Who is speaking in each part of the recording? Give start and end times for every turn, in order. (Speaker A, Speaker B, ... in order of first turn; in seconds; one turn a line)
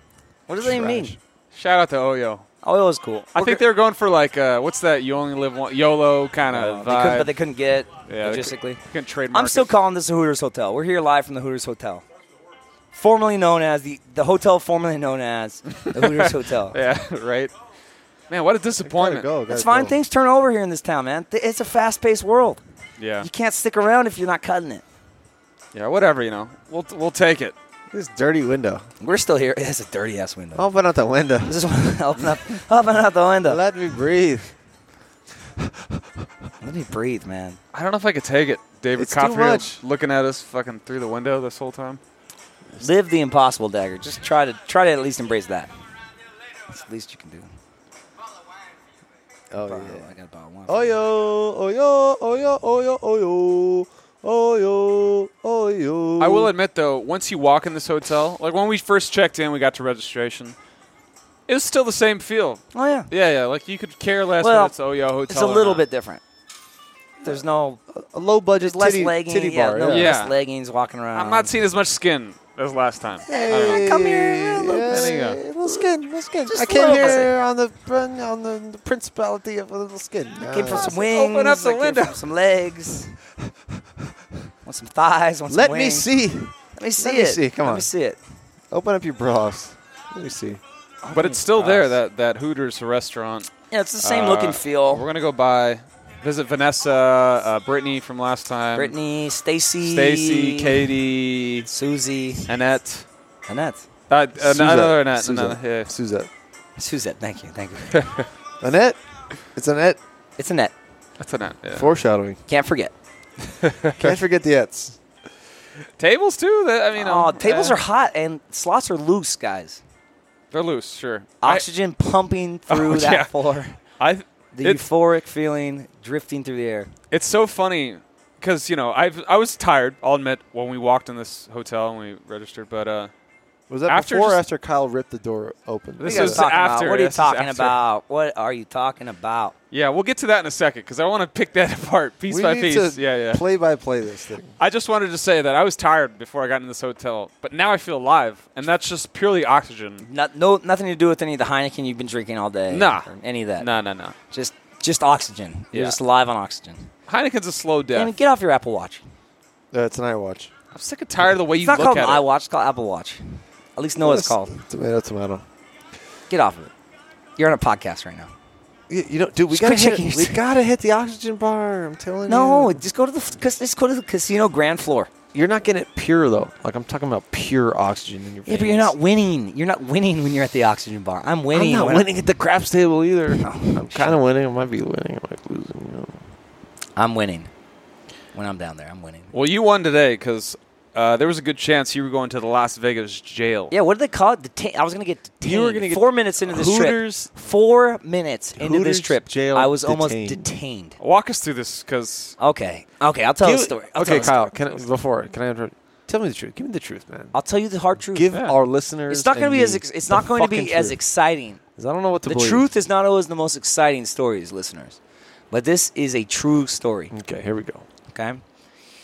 Speaker A: 0.5-1.2
Speaker B: 0.6-1.2
Speaker C: 1.5-2.5
Speaker A: 2.6-3.6
Speaker C: 3.4-7.3
Speaker A: 6.5-8.8
Speaker C: 8.1-9.7
Speaker A: 9.3-12.0
Speaker A: 12.9-16.8
Speaker C: 15.8-17.5
Speaker C: 18.3-19.3
Speaker B: 18.8-20.0
Speaker A: 19.5-22.6
Speaker C: 23.0-23.3
Speaker A: 23.2-24.8
Speaker C: 25.7-27.6
Speaker B: 27.9-28.9
Speaker A: 29.0-30.7
Speaker B: 30.6-31.6
Speaker A: 31.4-33.6
Speaker B: 33.5-34.5
Speaker B: 35.6-36.3
Speaker A: 36.6-37.6
Speaker C: 37.7-42.0
Speaker B: 39.0-39.8
Speaker A: 42.8-45.7
Speaker A: 46.7-47.5
Speaker B: 49.5-50.1
Speaker A: 49.7-51.0
Speaker B: 50.7-56.5
Speaker C: 56.2-60.5
Speaker C: 61.5-65.8
Speaker A: 62.7-63.1
Speaker A: 64.4-64.7
Speaker A: 65.3-66.2
Speaker A: 67.2-67.8
Speaker B: 67.9-70.1
Speaker A: 68.6-71.5
Speaker C: 69.9-70.4
Speaker C: 71.1-74.1
Speaker A: 73.3-75.9
Speaker B: 73.3-81.0
Speaker C: 74.7-75.4
Speaker A: 76.5-77.3
Speaker A: 80.4-83.2
Speaker C: 80.7-82.2
Speaker B: 83.5-83.8
Speaker A: 84.7-86.1
Speaker B: 85.5-87.9
Speaker A: 86.8-88.2
Speaker B: 88.7-90.6
Speaker A: 91.0-91.9
Speaker C: 91.1-98.9
Speaker A: 93.7-95.0
Speaker A: 98.8-100.9
Speaker C: 99.8-101.7
Speaker A: 101.7-102.5
Speaker C: 102.5-103.1
Speaker A: 103.5-103.9
Speaker C: 104.1-105.9
Speaker B: 104.4-106.3
Speaker A: 106.8-108.0
Speaker C: 107.9-108.2
Speaker B: 108.6-109.0
Speaker B: 109.5-110.0
Speaker A: 110.4-110.7
Speaker C: 111.2-111.9
Speaker B: 111.7-112.4
Speaker A: 112.5-112.9
Speaker C: 113.6-114.2
Speaker B: 114.0-115.0
Speaker C: 116.0-117.8
Speaker A: 117.0-119.8
Speaker C: 120.5-121.6
Speaker A: 121.4-123.8
Speaker C: 122.7-123.3
Speaker C: 124.0-124.8
Speaker A: 124.5-126.9
Speaker C: 127.1-133.1
Speaker B: 133.7-136.4
Speaker C: 133.9-134.4
Speaker C: 136.0-137.8
Speaker A: 136.1-139.6
Speaker C: 139.7-143.4
Speaker B: 142.3-144.6
Speaker C: 144.6-150.0
Speaker A: 150.0-153.7
Speaker C: 152.7-154.2
Speaker A: 154.3-156.9
Speaker C: 157.1-158.1
Speaker A: 157.9-159.0
Speaker B: 159.7-160.5
Speaker C: 160.7-162.2
Speaker A: 161.5-164.6
Speaker B: 164.0-165.4
Speaker A: 166.3-166.7
Speaker A: 167.4-168.3
Speaker B: 168.9-172.8
Speaker A: 169.5-170.4
Speaker A: 172.3-175.1
Speaker B: 175.3-178.9
Speaker A: 178.5-182.1
Speaker B: 181.5-186.2
Speaker A: 183.4-184.2
Speaker A: 187.0-187.5
Speaker A: 188.3-189.3
Speaker C: 189.3-193.7
Speaker A: 193.7-201.0
Speaker B: 195.4-197.3
Speaker B: 198.6-200.5
Speaker C: 201.0-202.4
Speaker A: 202.4-204.5
Speaker B: 203.4-207.3
Speaker C: 204.0-204.3
Speaker A: 207.3-208.3
Speaker B: 208.0-211.0
Speaker A: 209.1-211.6
Speaker B: 211.8-212.7
Speaker A: 212.2-215.0
Speaker A: 215.5-217.1
Speaker B: 217.1-217.8
Speaker A: 218.1-218.4